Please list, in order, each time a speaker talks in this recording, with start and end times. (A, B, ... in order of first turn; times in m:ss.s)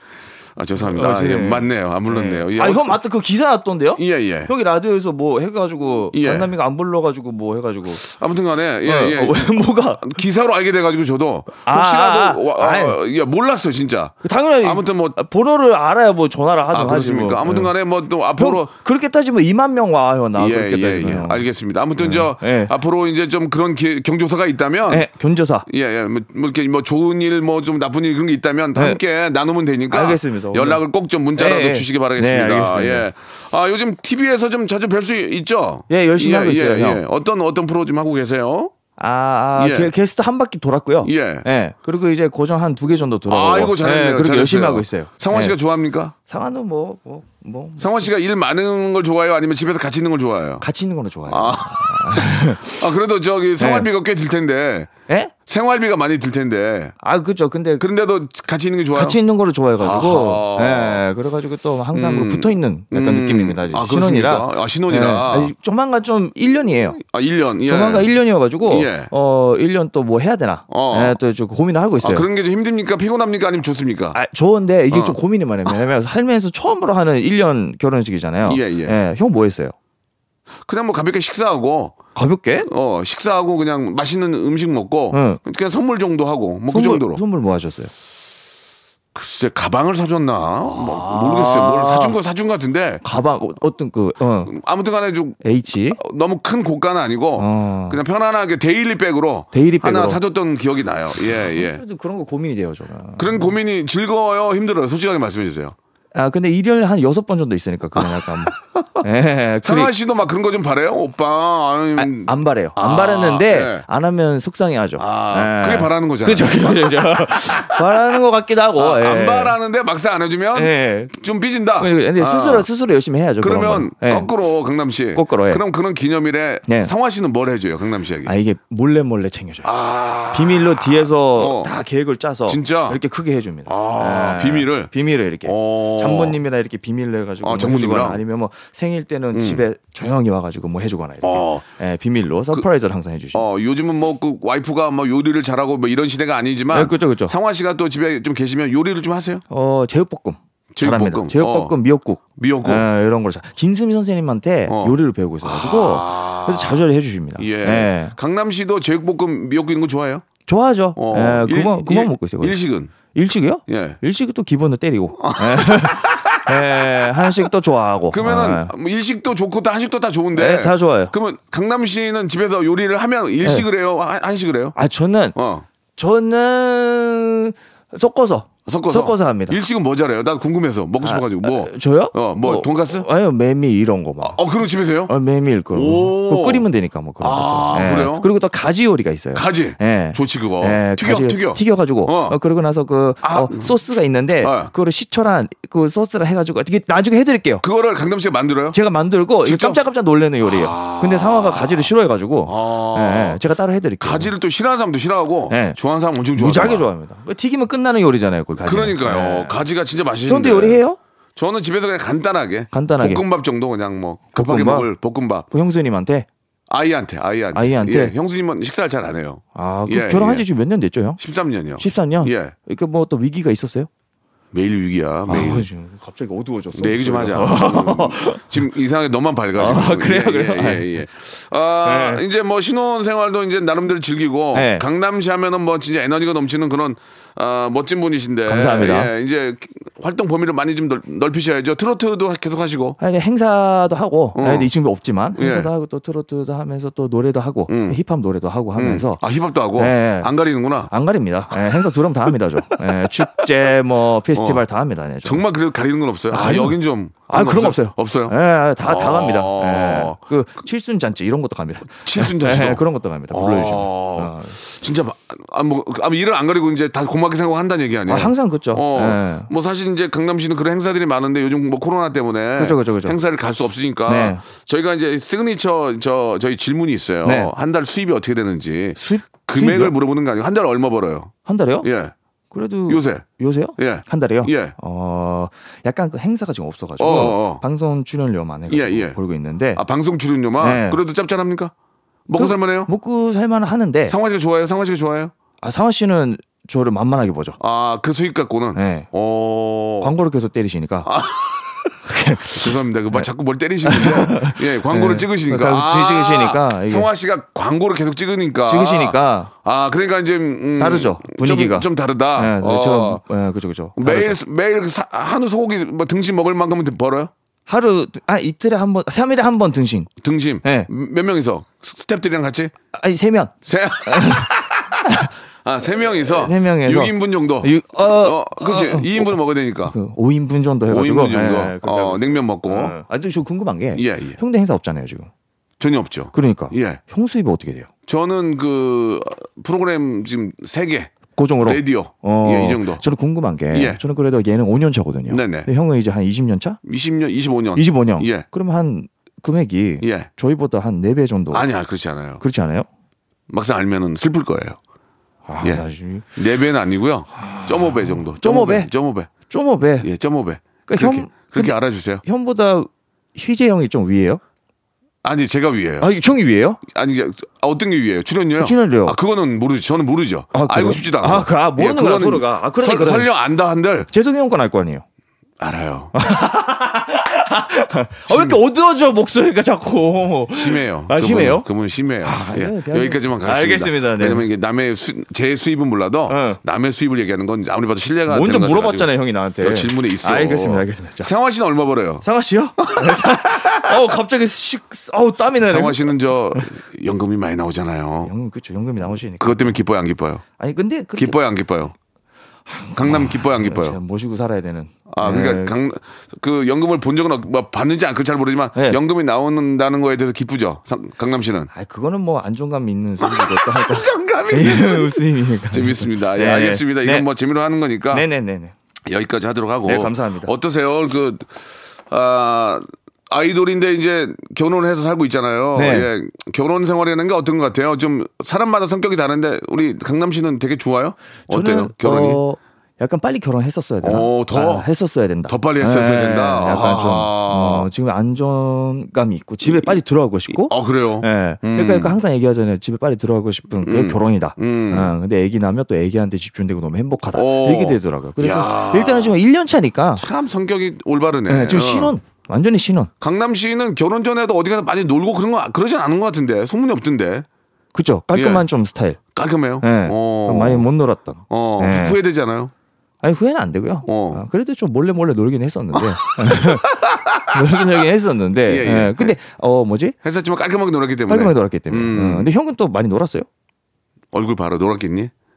0:00.6-0:03.0 A
0:00.8-0:08.0 B
0:04.0-0:04.5 A
0:06.1-0:06.5 A
0:08.0-0:09.4 A
0:08.8-0:10.2 B
0:10.0-0:15.2 A
0:11.6-0:13.0 B
0:14.2-0:17.7 B
0:16.7-0:18.7 A
0:18.4-0:21.4 B
0:20.4-0:25.1 A
0:22.0-0:22.7 B
0:24.9-0:25.6 B
0:25.7-0:38.7 A
0:29.9-0:30.8 B
0:31.3-0:33.1 B
0:35.9-0:37.0 B
0:39.0-0:45.5 B
0:39.6-0:39.9 A
0:41.0-0:41.4 A
0:43.3-0:46.1 A
0:46.3-0:48.1 B
0:47.8-0:50.6 A
0:50.6-0:52.7 B
0:51.3-0:54.9 A
0:53.6-0:53.9 B
0:55.1-0:55.3 B
0:55.4-0:56.9 A
0:57.0-0:57.8 B
0:57.8-0:59.2 A
0:58.9-1:07.0 B
0:59.8-1:01.0 A
1:01.9-1:05.5 A
1:07.0-1:08.1 A
1:07.6-1:12.2 B
1:08.6-1:09.1 A
1:10.7-1:11.2 A
1:12.0-1:14.2 A
1:14.1-1:19.7 B
1:14.9-1:15.8 A
1:18.4-1:19.0 A
1:20.6-1:22.0 A
1:22.1-1:22.7 B
1:22.6-1:27.2 A
1:25.1-1:25.4 B
1:26.7-1:27.9 B
1:29.1-1:33.0 A
1:30.6-1:32.2 B
1:33.0-1:34.5 B
1:34.4-1:35.4 A
1:35.4-1:36.0 B
1:35.9-1:41.8 A
1:37.4-1:38.0 B
1:39.5-1:40.2 B
1:41.3-1:43.5 B
1:43.2-1:45.8 A
1:46.1-1:49.9 B
1:48.0-1:48.5 A
1:49.6-1:53.8 A
1:52.0-1:59.6 B
1:55.0-1:58.0 A
1:58.7-2:02.7 A
2:00.5-2:01.1 B
2:01.8-2:04.3 B
2:03.4-2:08.3 A
2:05.1-2:05.6 B
2:06.6-2:06.9 B
2:08.2-2:09.7 B
2:09.6-2:11.7 A
2:10.3-2:23.4 B
2:12.5-2:13.0 A
2:13.7-2:14.9 A
2:15.4-2:16.4 A
2:17.4-2:18.2 A
2:19.3-2:19.6 A
2:21.2-2:21.6 A
2:23.3-2:29.4 A
2:26.7-2:27.3 B
2:29.5-2:38.1 B
2:30.7-2:31.7 A
2:32.4-2:32.8 A
2:34.7-2:40.2 A
2:40.5-2:42.6 B
2:41.0-2:42.9 A
2:43.1-2:48.7 B
2:43.7-2:44.0 A
2:45.2-2:47.5 A
2:48.1-2:54.8 A
2:50.3-2:51.1 B
2:54.8-2:55.4 B
2:55.3-2:55.6 A
2:56.0-2:59.6 B
2:58.6-3:03.1 A
3:01.0-3:04.4 B
3:04.2-3:05.1 A
3:05.1-3:17.6 B
3:05.7-3:06.7 A
3:07.2-3:08.3 A
3:09.3-3:12.4 A
3:13.2-3:13.7 A
3:14.4-3:14.7 A
3:17.6-3:18.8 A
3:18.7-3:24.3 B
3:19.4-3:19.8 A
3:20.4-3:21.9 A
3:22.4-3:23.4 A
3:24.0-3:26.8 A
3:25.5-3:25.8 B
3:26.4-3:29.6 B
3:28.6-3:30.8 A
3:30.3-3:31.0 B
3:31.4-3:35.5 A
3:32.7-3:33.2 B
3:34.3-3:34.9 B
3:35.5-3:36.3 B
3:36.7-3:40.4 A
3:37.5-3:38.1 B
3:39.5-3:41.2 B
3:41.2-3:42.5 A
3:41.8-3:43.9 B
3:44.5-3:45.6 A
3:45.3-3:48.4 B
3:46.7-4:03.0 A
3:49.6-3:51.1 B
3:51.8-3:52.2 B
3:54.5-3:54.8 B
3:58.5-3:59.1 B
4:03.0-4:09.2 B
4:04.3-4:04.7 A
4:05.4-4:05.7 A
4:07.7-4:08.0 A
4:08.8-4:10.9 A
4:09.8-4:10.3 B
4:10.9-4:15.4 B
4:13.2-4:13.4 A
4:14.3-4:14.6 A
4:15.2-4:20.2 A
4:16.3-4:24.5 B
4:21.9-4:42.1 A
4:28.1-4:29.5 B
4:32.6-4:33.2 B
4:34.1-4:34.4 B
4:37.2-4:37.5 B
4:39.0-4:39.9 B
4:41.4-4:41.9 B
4:42.5-4:49.8 B
4:42.9-4:43.2 A
4:43.8-4:44.7 A
4:47.0-4:47.6 A
4:48.7-4:49.2 A
4:49.7-4:51.7 A
4:50.6-4:51.0 B
4:52.3-4:52.9 A
4:52.4-4:54.2 B
4:54.1-4:55.3 A
4:55.6-4:57.6 B
4:57.6-5:00.1 A
4:58.7-4:59.1 B
5:00.0-5:01.1 B
5:01.0-5:01.9 A
5:02.0-5:03.3 B
5:02.5-5:13.2 A
5:03.8-5:07.1 B
5:08.7-5:09.5 B
5:10.8-5:14.4 B
5:14.0-5:17.3 A
5:17.7-5:20.1 B
5:20.2-5:22.7 A
5:20.6-5:20.9 B
5:22.9-5:23.5 B
5:23.6-5:29.9 A
5:24.0-5:25.3 B
5:26.1-5:35.3 B
5:30.9-5:33.0 A
5:33.9-5:34.4 A
5:35.8-5:37.0 A
5:36.3-5:37.9 B
5:38.1-5:43.0 A
5:41.4-5:46.8 B
5:43.7-5:44.0 A
5:45.3-5:45.7 A
5:46.8-5:48.4 A
5:47.7-5:51.7 B
5:50.0-5:50.3 A
5:51.5-5:52.4 A
5:52.4-5:52.8 B
5:53.5-5:54.8 A
5:55.5-5:56.2 B
5:56.3-5:59.3 A
5:57.4-5:58.9 B
5:59.5-6:00.1 B
6:00.0-6:02.2 A
6:00.8-6:04.4 B
6:05.2-6:06.1 A
6:06.0-6:06.8 B
6:06.8-6:14.1 A
6:08.6-6:09.2 B
6:10.5-6:13.3 B
6:14.1-6:15.0 B
6:15.6-6:16.1 A
6:16.1-6:21.7 B
6:18.3-6:18.6 A
6:20.5-6:29.1 A
6:22.2-6:24.5 B
6:26.3-6:26.6 B
6:28.3-6:31.3 B
6:29.6-6:32.2 A
6:32.2-6:36.7 B
6:32.8-6:33.9 A
6:35.4-6:38.3 A
6:38.2-6:39.8 B
6:39.4-6:40.4 A
6:40.6-6:41.4 B
6:41.2-6:41.9 A
6:42.7-6:45.7 B
6:43.0-6:44.0 A
6:45.1-6:51.7 A
6:51.7-6:57.3 B
6:53.2-6:58.2 A
6:58.1-6:58.7 B
6:59.1-7:01.5 A
6:59.8-7:00.5 B
7:02.1-7:12.4 A
7:05.7-7:06.1 B
7:11.5-7:30.2 B
7:14.0-7:14.9 A
7:15.5-7:17.9 A
7:19.6-7:19.9 A
7:20.5-7:22.2 A
7:23.8-7:25.1 A
7:27.3-7:29.4 A
7:30.2-7:32.1 A
7:31.5-7:33.1 B
7:33.2-7:37.4 A
7:37.9-7:39.2 B
7:38.3-7:38.6 A
7:39.3-7:40.9 A
7:39.8-7:42.2 B
7:41.5-7:42.7 A
7:43.2-7:50.2 B
7:44.0-7:44.4 A
7:45.9-7:47.8 A
7:48.6-7:49.3 A
7:50.2-7:52.5 A
7:51.3-7:53.5 B
7:54.3-7:55.3 A